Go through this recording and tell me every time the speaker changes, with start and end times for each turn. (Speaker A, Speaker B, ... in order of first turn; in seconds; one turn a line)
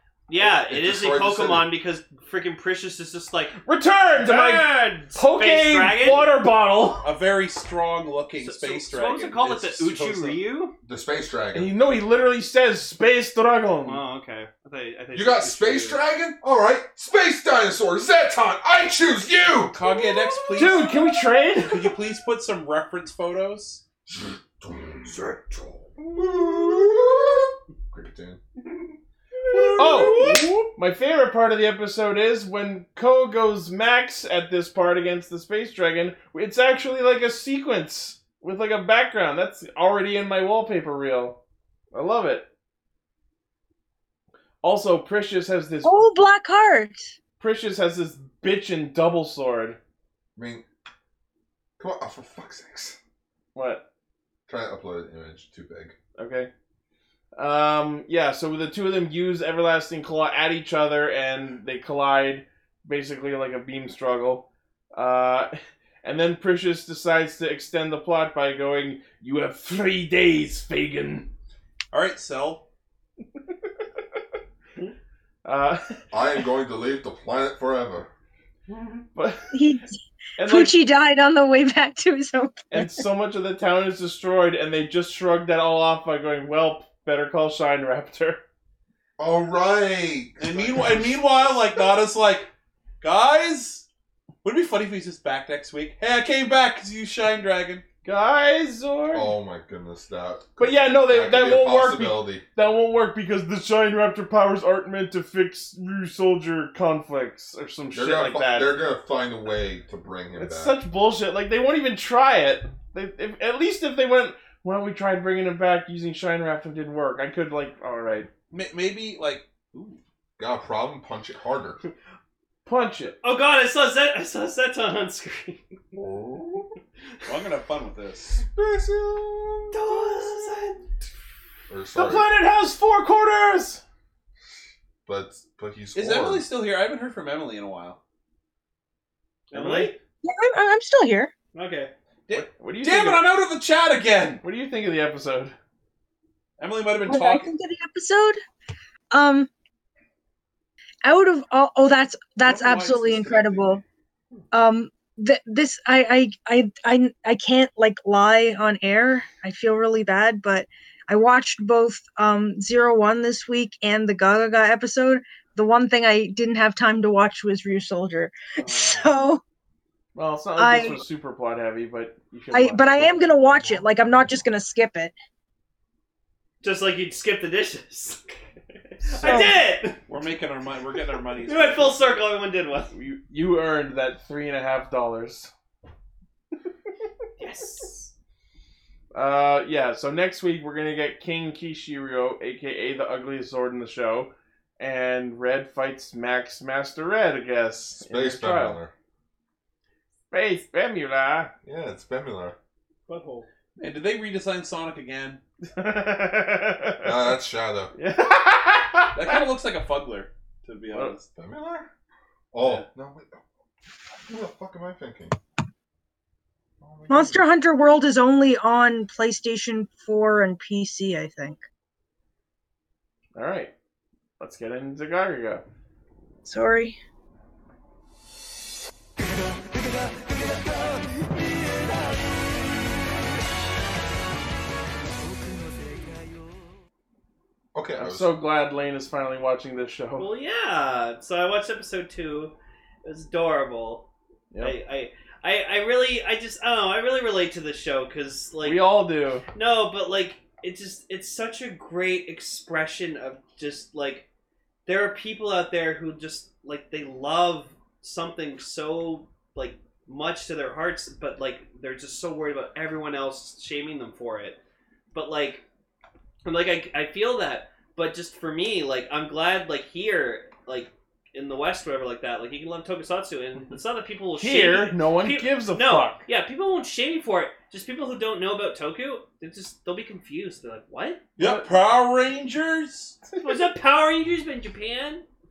Speaker A: 0.3-3.6
Speaker B: 0.4-1.7
Speaker C: 3.6-7.1
Speaker A: 4.1-6.3
Speaker D: 7.0-10.4
Speaker A: 8.4-10.7
Speaker B: 10.8-11.7
Speaker C: 11.5-14.0
Speaker A: 13.8-16.0
Speaker B: 15.1-19.8
Speaker D: 19.7-20.9
Speaker A: 19.9-20.5
Speaker C: 20.5-21.9
Speaker D: 21.5-23.8
Speaker B: 24.1-28.4
Speaker D: 29.5-30.6
Speaker A: 29.6-30.4
Speaker C: 29.8-41.4
Speaker C: 41.9-42.5
Speaker C: 44.6-46.0
Speaker E: 45.8-47.1
Speaker C: 47.4-49.8
Speaker B: 50.4-50.6
Speaker B: 51.8-53.0
Speaker C: 53.5-53.9
Speaker B: 54.5-55.9
Speaker C: 56.2-56.5
Speaker C: 57.3-71.3
Speaker D: 71.9-72.6
Speaker C: 75.4-76.0
Speaker B: 76.1-78.1
Speaker A: 78.7-79.0
Speaker C: 79.1-79.5
Speaker E: 79.5-83.0
Speaker C: 80.4-80.8
Speaker C: 82.7-88.4
Speaker B: 89.2-91.2
Speaker D: 90.4-92.5
Speaker D: 93.0-93.8
Speaker D: 94.4-97.8
Speaker C: 98.0-99.3
Speaker B: 99.1-102.4
Speaker C: 100.6-108.7
Speaker B: 107.9-110.8
Speaker C: 110.3-118.3
Speaker D: 118.5-120.0
Speaker B: 120.4-121.8
Speaker C: 122.7-123.2
Speaker A: 123.2-125.6
Speaker B: 125.9-126.7
Speaker D: 127.2-128.4
Speaker B: 128.4-130.3
Speaker A: 129.7-130.8
Speaker B: 131.7-132.3
Speaker C: 131.9-133.8
Speaker B: 135.1-136.4
Speaker D: 135.9-138.0
Speaker A: 139.5-139.9
Speaker D: 139.5-139.9
Speaker E: 140.2-141.3
Speaker A: 141.5-141.9
Speaker D: 142.3-144.4
Speaker C: 142.3-143.3
Speaker C: 144.4-145.5
Speaker D: 146.6-147.5
Speaker E: 147.0-148.4
Speaker E: 149.1-149.5
Speaker E: 151.0-153.8
Speaker D: 152.4-153.8
Speaker E: 154.5-169.4
Speaker A: 168.6-169.1
Speaker C: 170.1-173.8
Speaker E: 170.6-171.0
Speaker E: 172.5-175.1
Speaker A: 176.6-178.4
Speaker A: 179.0-180.0
Speaker C: 179.1-179.4
Speaker D: 179.2-179.5
Speaker E: 179.2-179.6
Speaker D: 180.1-182.2
Speaker A: 181.4-182.9
Speaker C: 182.9-185.5
Speaker A: 187.4-188.1
Speaker C: 189.1-198.8
Speaker B: 198.0-198.9
Speaker C: 200.3-201.5
Speaker B: 201.6-202.6
Speaker A: 203.1-203.5
Speaker D: 203.8-205.4
Speaker C: 205.7-207.3
Speaker B: 207.0-207.9
Speaker C: 207.9-209.4
Speaker D: 209.1-211.3
Speaker B: 211.3-211.9
Speaker B: 212.5-213.4
Speaker B: 214.2-215.3
Speaker B: 216.8-217.5
Speaker E: 217.1-221.6
Speaker C: 223.3-223.7
Speaker C: 224.4-225.6
Speaker E: 226.4-227.0
Speaker B: 237.7-238.3
Speaker C: 237.9-240.3
Speaker A: 240.2-244.1
Speaker A: 244.6-248.8
Speaker C: 248.6-249.4
Speaker A: 249.5-254.3
Speaker A: 254.8-264.6
Speaker A: 265.1-265.6
Speaker A: 266.4-281.2
Speaker C: 274.4-276.2
Speaker D: 281.4-283.2
Speaker C: 281.4-281.7
Speaker A: 283.4-285.2